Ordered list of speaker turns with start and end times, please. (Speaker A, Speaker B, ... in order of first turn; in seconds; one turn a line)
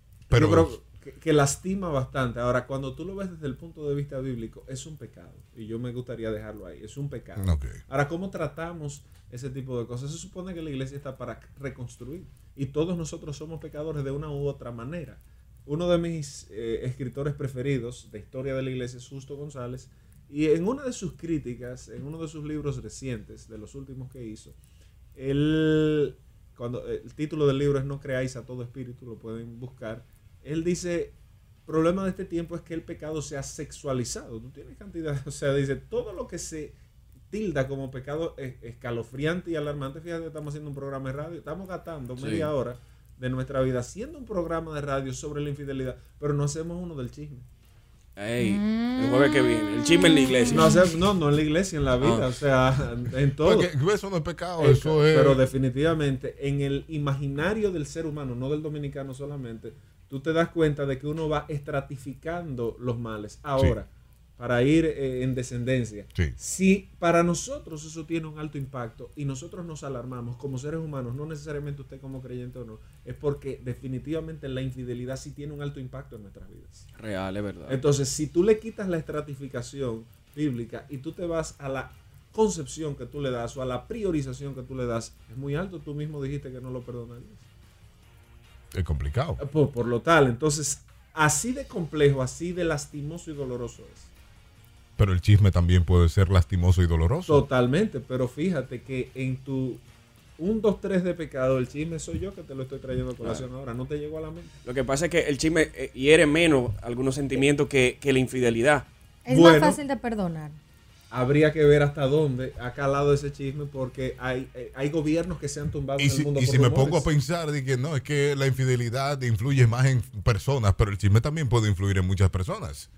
Speaker A: 0.3-0.8
Speaker B: 0.3-24.6
Speaker A: 7.4-7.8
Speaker B: 25.1-31.1
Speaker B: 31.7-36.8
Speaker B: 37.3-47.5
Speaker C: 42.2-42.5
Speaker C: 48.2-50.9
Speaker D: 48.4-50.8
Speaker B: 50.5-53.7
Speaker C: 52.0-52.4
Speaker A: 53.4-55.4
Speaker B: 54.6-76.9
Speaker C: 77.0-77.8
Speaker B: 77.7-87.5
Speaker A: 88.7-89.4
Speaker B: 89.4-94.1
Speaker A: 95.0-97.4
Speaker B: 97.3-99.8
Speaker B: 100.4-104.5
Speaker C: 103.2-103.5
Speaker C: 104.6-108.9
Speaker D: 109.3-110.6
Speaker B: 109.3-109.8
Speaker B: 111.1-117.1
Speaker A: 116.0-122.9